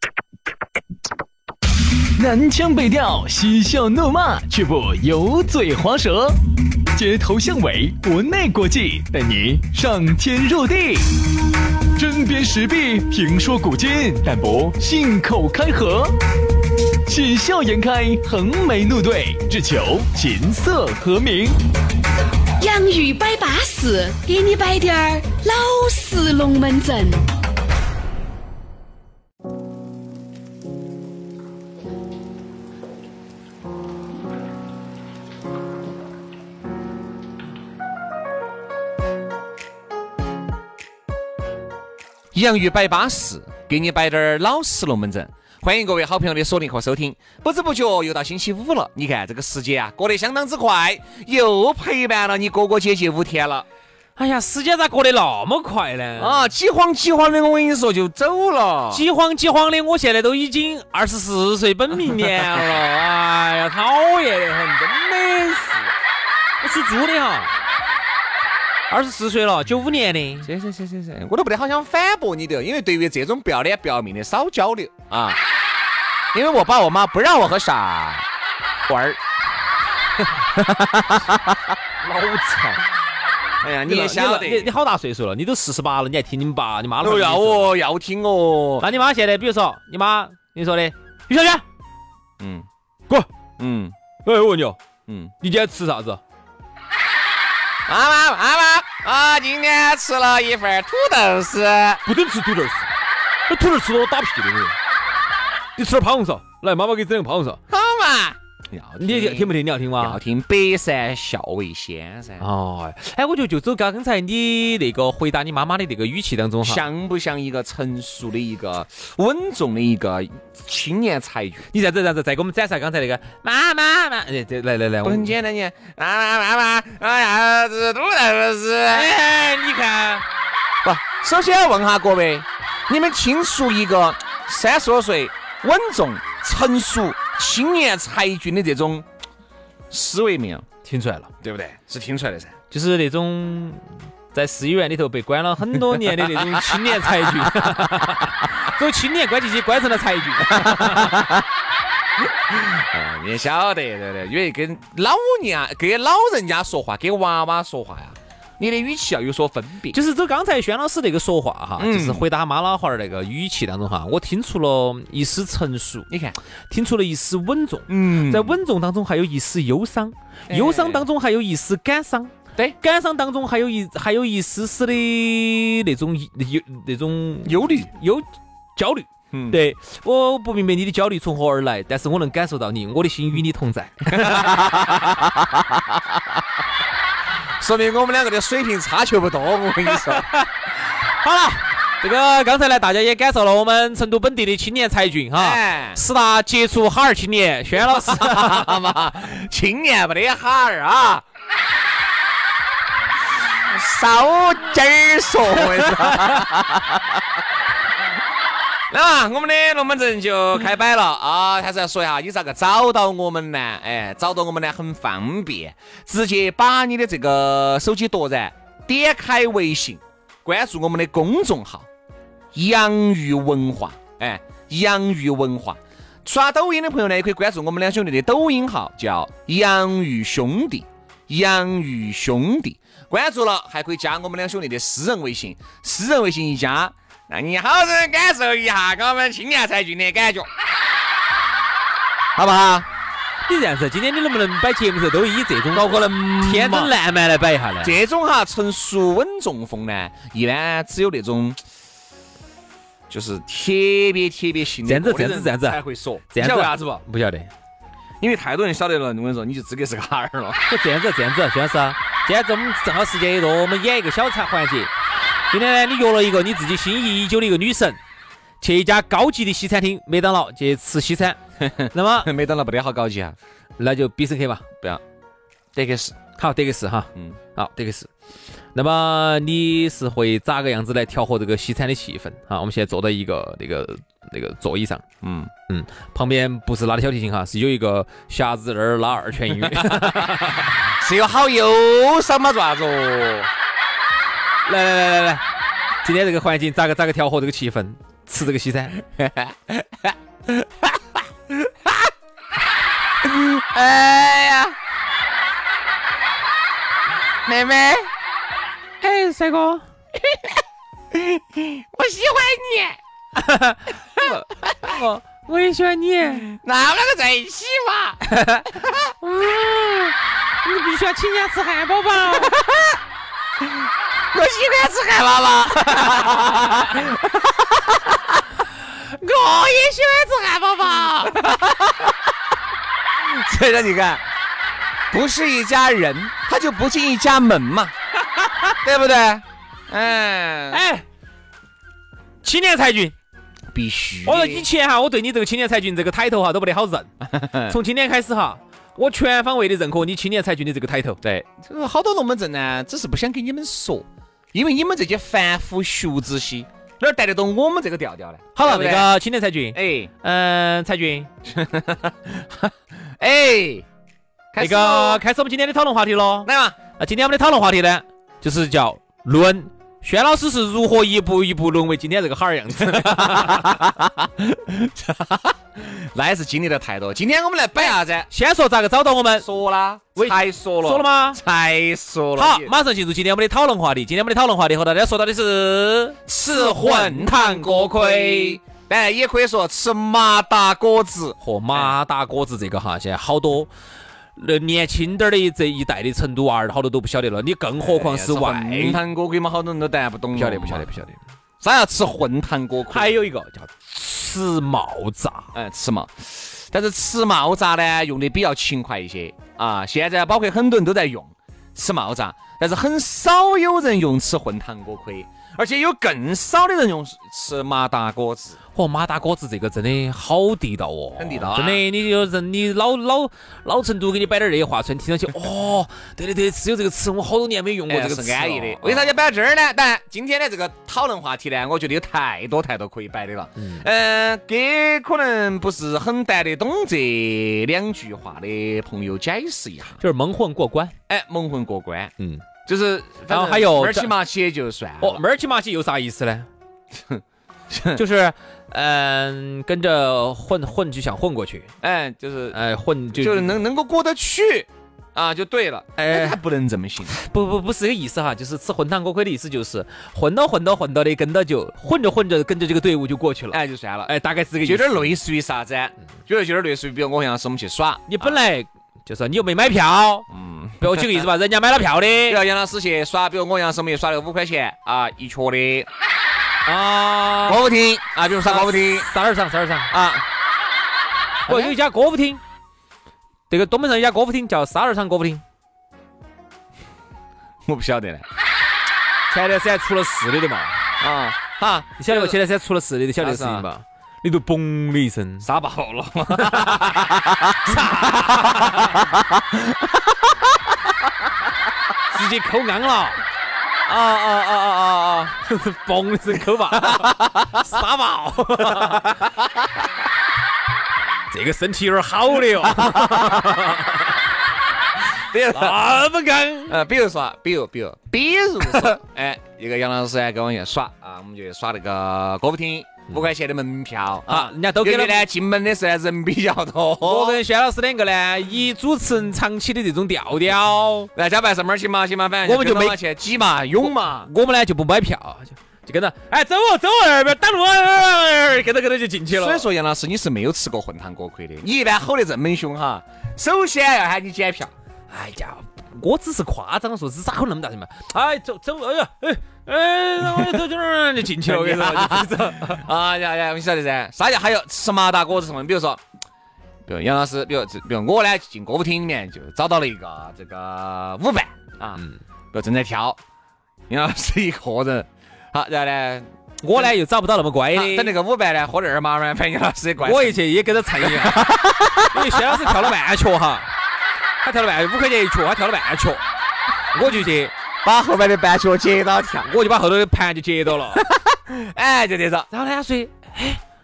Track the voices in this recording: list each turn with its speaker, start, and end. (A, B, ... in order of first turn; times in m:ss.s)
0:02.2-0:06.4 A
0:06.9-0:11.2 A
0:11.9-0:16.1 A
0:17.0-0:21.6 A
0:22.6-0:27.2 B
0:42.3-0:53.6 C
0:54.2-0:56.4 D
0:56.2-0:59.0 C
0:58.9-1:05.9 D
1:06.6-1:07.5 D
1:08.9-1:10.5 D
1:10.4-1:15.4 C
1:16.3-1:18.2 C
1:18.9-1:19.2 C
1:20.5-1:21.5 C
1:22.0-1:22.8 D
1:23.6-1:24.7 C
1:23.8-1:27.8 D
1:27.0-1:28.9 C
1:28.8-1:31.6 D
1:32.4-1:32.7 C
1:33.6-1:33.9 C
1:34.2-1:34.8 D
1:35.1-1:35.3 C
1:35.4-1:36.2 D
1:37.9-1:42.0 C
1:42.0-1:42.8 D
1:43.5-1:44.8 D
1:45.8-1:47.6 D
1:47.7-1:52.5 C
1:49.0-1:50.2 D
1:52.4-1:56.8 D
1:56.6-2:01.7 C
2:01.7-2:05.3 D
2:05.0-2:09.1 C
2:08.9-2:10.2 D
2:10.8-2:19.0 C
2:19.9-2:20.6 C
2:20.8-2:21.4 D
2:21.4-2:22.6 C
2:22.7-2:31.2 D
2:26.0-2:27.7 C
2:30.4-2:31.4 C
2:32.2-2:40.0 C
2:39.9-2:46.1 D
2:41.8-2:42.2 C
2:46.1-2:46.4 C
2:46.7-2:58.2 D
2:47.9-2:48.6 C
2:50.5-2:51.1 C
2:57.4-2:57.9 C
2:58.8-3:05.3 D
2:59.3-2:59.6 C
3:04.1-3:06.2 C
3:07.6-3:10.2 C
3:09.9-3:18.9 D
3:15.3-3:16.0 C
3:17.8-3:21.2 C
3:23.6-3:27.2 C
3:25.9-3:26.4 D
3:28.9-3:41.9 C
3:42.5-4:00.5 C
4:02.4-4:02.9 C
4:03.5-4:08.0 D
4:05.7-4:06.9 C
4:07.8-4:11.6 C
4:13.1-4:17.0 C
4:14.8-4:15.8 D
4:16.3-4:17.5 D
4:18.2-4:20.6 C
4:20.7-4:24.9 D
4:25.5-4:28.0 D
4:28.6-4:31.4 D
4:31.6-4:33.4 C
4:31.9-4:32.3 D
4:33.8-4:34.6 D
4:35.7-4:36.2 C
4:36.4-4:38.1 D
4:38.7-4:45.0 D
4:45.2-4:45.5 C
4:45.7-4:50.8 D
4:49.6-4:53.5 C
4:54.6-4:55.4 D
4:56.0-4:59.0 D
4:59.1-5:02.1 C
5:03.2-5:04.8 C
5:07.4-5:08.1 C
5:09.0-5:09.8 D
5:10.1-5:13.0 C
5:13.3-5:16.5 D
5:14.2-5:15.0 C
5:16.4-5:19.1 C
5:18.2-5:18.7 D
5:19.2-5:22.6 D
5:22.2-5:23.0 C
5:24.3-5:28.4 C
5:29.2-5:31.3 D
5:30.9-5:32.3 C
5:33.2-5:34.2 C
5:35.1-5:37.9 C
5:38.8-5:40.8 C
5:40.7-5:41.0 D
5:42.4-5:43.1 D
5:43.7-5:44.6 C
5:44.2-5:47.1 D
5:47.2-5:47.8 C
5:47.6-5:51.2 D
5:51.2-5:59.1 C
5:58.5-6:01.3 D
5:59.7-6:00.1 C
6:01.4-6:03.8 C
6:04.5-6:05.2 C
6:04.6-6:13.8 D
6:06.4-6:06.8 C
6:12.8-6:18.3 C
6:18.3-6:19.5 D
6:19.4-6:22.7 C
6:20.2-6:21.4 D
6:22.4-6:28.6 D
6:26.3-6:32.0 C
6:31.4-6:33.7 D
6:34.4-6:39.0 D
6:37.8-6:40.9 C
6:40.3-6:41.2 D
6:41.6-6:43.1 C
6:42.9-6:45.5 D
6:45.5-6:58.6 C
6:58.7-7:09.1 D
7:01.2-7:01.8 C
7:07.9-7:20.0 C
7:13.6-7:13.8 D
7:20.0-7:20.9 D
7:21.1-7:22.1 C
7:22.2-7:22.4 D
7:22.6-7:25.2 C
7:23.3-7:24.1 D
7:25.0-7:26.5 D
7:27.1-7:28.0 C
7:27.9-7:31.7 D
7:31.8-7:32.6 C
7:32.5-7:33.6 D
7:33.1-7:37.2 C
7:36.0-7:36.4 D
7:37.1-7:45.1 D
7:43.5-7:48.4 C
7:48.1-7:50.3 D
7:50.3-7:51.3 C
7:50.8-7:52.4 D
7:52.3-7:55.9 C
7:56.6-7:57.6 D
7:57.4-7:59.1 C
7:58.4-7:59.9 D
7:59.9-8:00.2 C
8:01.4-8:02.4 D
8:01.5-8:01.8 C
8:03.5-8:05.4 D
8:07.6-8:08.2 C
8:09.3-8:10.8 D
8:11.0-8:12.4 C
8:12.0-8:15.5 D
8:13.2-8:13.7 C
8:15.4-8:20.3 C
8:16.4-8:19.0 D
8:22.1-8:23.2 D
8:23.9-8:25.3 C
8:25.4-8:29.3 D
8:26.7-8:27.8 C
8:28.6-8:29.8 C
8:31.3-8:34.1 D
8:32.6-8:33.7 C
8:35.3-8:35.8 C
8:35.5-8:36.8 D
8:36.7-8:47.4 C
8:44.3-8:45.2 D
8:47.0-8:51.1 D
8:51.1-8:54.3 C
8:52.4-8:53.0 D
8:53.8-8:59.6 D
8:59.3-9:04.7 C
9:05.1-9:12.8 D
9:10.3-9:10.6 C
9:11.4-9:16.0 C
9:16.8-9:22.0 C
9:22.5-9:23.2 C
9:23.9-9:26.9 C
9:26.6-9:28.2 D
9:27.7-9:30.4 C
9:30.0-9:33.7 D
9:31.0-9:32.9 C
9:34.4-9:36.2 D
9:36.9-9:37.5 D
9:37.8-9:39.5 C
9:39.4-9:41.0 D
9:40.9-9:42.5 C
9:42.5-9:43.6 D